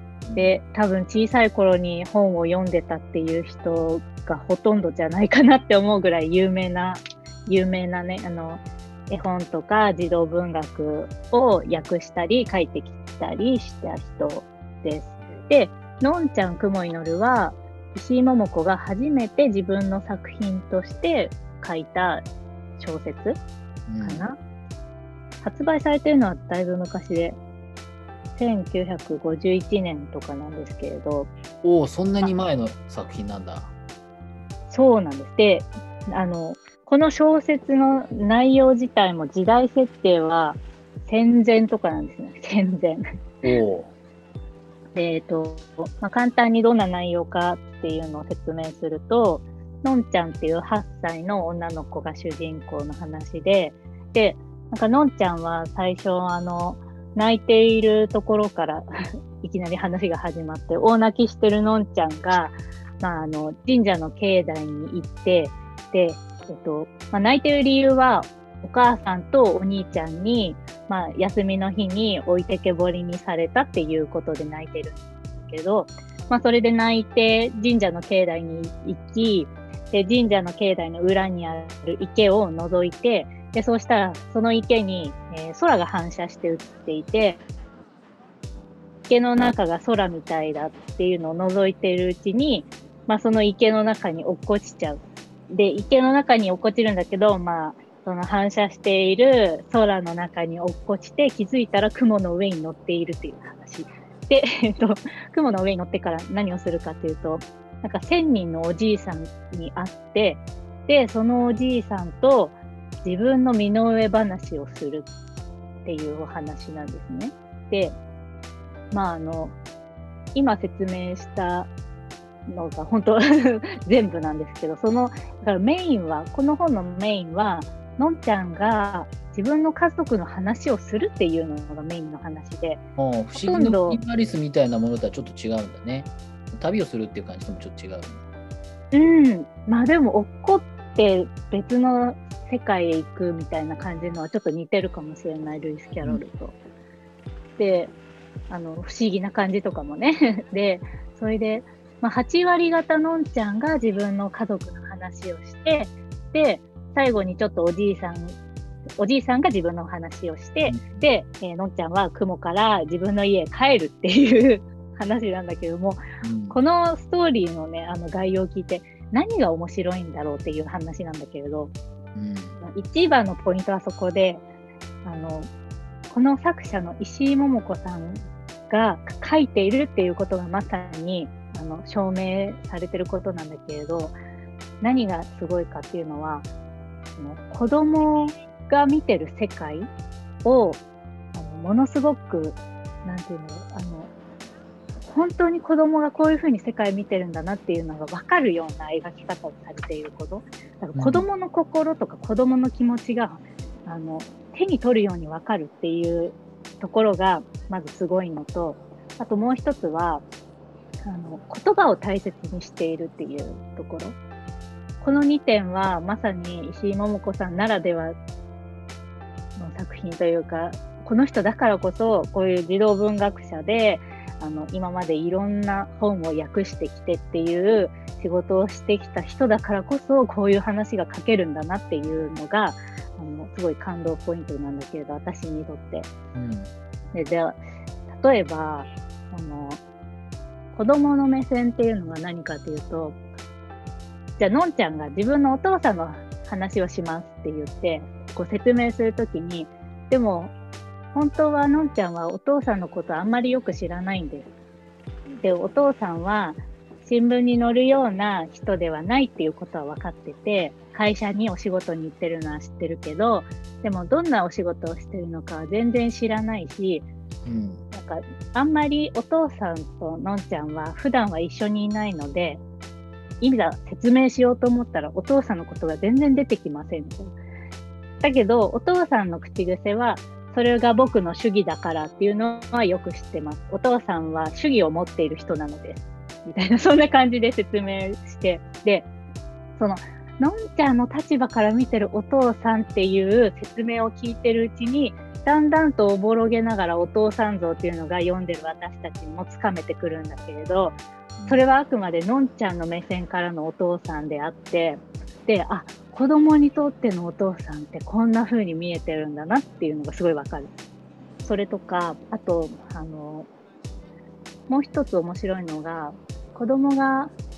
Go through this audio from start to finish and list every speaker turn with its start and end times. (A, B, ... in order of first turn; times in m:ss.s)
0:00.2-0:00.5 A
0:00.4-0:22.2 B
0:15.2-0:15.5 A
0:22.8-0:23.4 B
0:23.9-0:24.2 A
0:24.0-0:24.4 B
0:25.4-0:27.4 B
0:28.4-0:31.3 B
0:31.6-0:33.7 A
0:34.7-0:43.0 B
0:43.4-0:43.9 A
0:45.0-0:58.8 B
0:59.4-1:27.4 B
1:29.1-1:55.1 B
1:55.8-1:57.9 B
1:58.9-1:59.6 B
2:00.3-2:01.7 B
2:02.5-2:12.8 B
2:13.0-2:18.2 A
2:13.4-2:14.0 B
2:18.9-2:26.6 B
2:27.6-2:27.9 B
2:28.5-2:38.4 B
2:39.0-2:51.7 B
2:40.6-2:41.0 A
2:46.2-2:46.6 A
2:52.1-2:52.6 A
2:52.6-2:54.4 B
2:55.0-2:55.5 B
2:56.1-3:04.1 B
3:04.8-3:06.5 B
3:07.2-3:09.9 B
3:10.4-3:10.8 B
3:11.3-3:14.1 B
3:15.0-3:30.2 B
3:20.9-3:21.2 A
3:31.0-3:34.2 B
3:35.0-3:38.2 B
3:39.6-3:56.1 B
3:56.3-3:56.7 A
3:57.1-3:59.8 B
4:00.7-4:03.2 B
4:04.4-4:10.5 B
4:11.1-4:14.5 B
4:15.4-4:27.1 B
4:27.4-4:27.8 A
4:27.9-4:32.6 B
4:33.4-4:37.4 B
4:38.2-4:49.1 B
4:49.8-5:10.7 B
5:11.4-5:13.5 B
5:14.7-5:17.3 B